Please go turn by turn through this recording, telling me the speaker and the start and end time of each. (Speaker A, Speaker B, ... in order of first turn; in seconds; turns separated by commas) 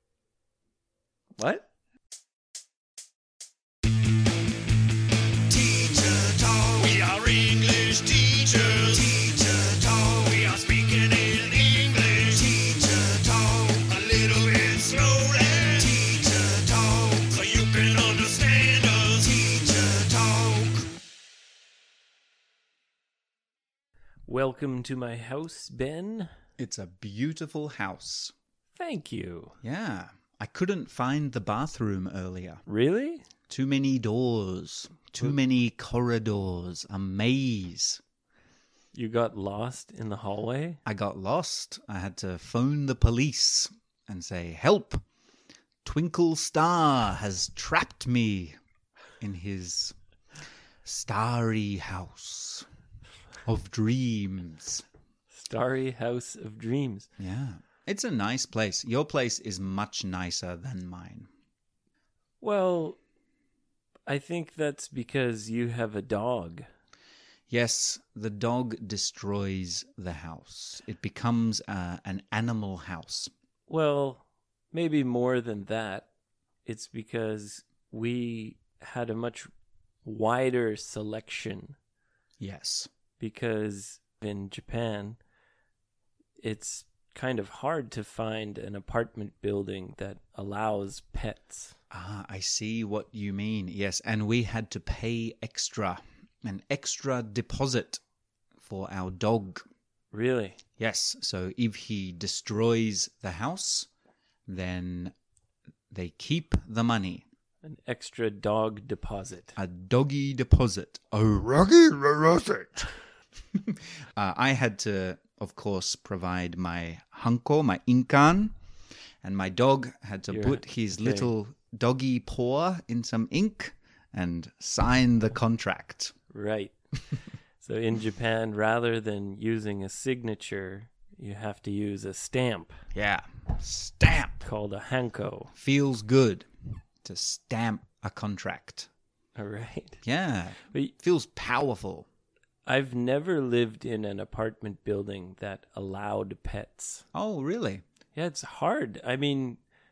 Speaker A: 1.4-1.7, Speaker B: 5.5-20.9, Speaker A: 24.3-26.3, Speaker C: 26.6-28.3, Speaker A: 28.8-29.6, Speaker C: 29.6-32.6, Speaker A: 32.7-33.2, Speaker C: 33.5-38.0, Speaker A: 38.9-40.8, Speaker C: 40.8-45.0, Speaker C: 45.8-48.5, Speaker C: 49.2-50.0, Speaker C: 50.8-52.6, Speaker C: 53.5-54.8, Speaker A: 55.3-57.1, Speaker C: 57.2-61.3, Speaker A: 62.4-63.0, Speaker A: 64.1-66.7, Speaker C: 67.5-73.3, Speaker A: 73.7-76.1, Speaker A: 76.7-79.5, Speaker A: 80.0-81.8, Speaker C: 82.4-82.9, Speaker A: 83.2-85.2, Speaker A: 86.4-91.8, Speaker C: 91.9-98.0, Speaker C: 98.6-99.6, Speaker A: 100.1-100.6, Speaker C: 100.8-103.9, Speaker C: 104.5-105.1, Speaker C: 105.9-107.2, Speaker A: 107.6-109.6, Speaker C: 109.5-112.9, Speaker C: 113.5-118.5, Speaker C: 119.2-126.1, Speaker A: 120.3-121.3, Speaker A: 126.3-126.7, Speaker A: 127.6-132.8, Speaker C: 132.9-134.4, Speaker A: 134.4-135.5, Speaker C: 135.6-136.5, Speaker C: 137.0-138.9, Speaker A: 139.3-140.0, Speaker C: 140.0-142.1, Speaker A: 140.7-140.9, Speaker A: 142.7-147.0, Speaker C: 147.1-147.8, Speaker A: 148.1-149.6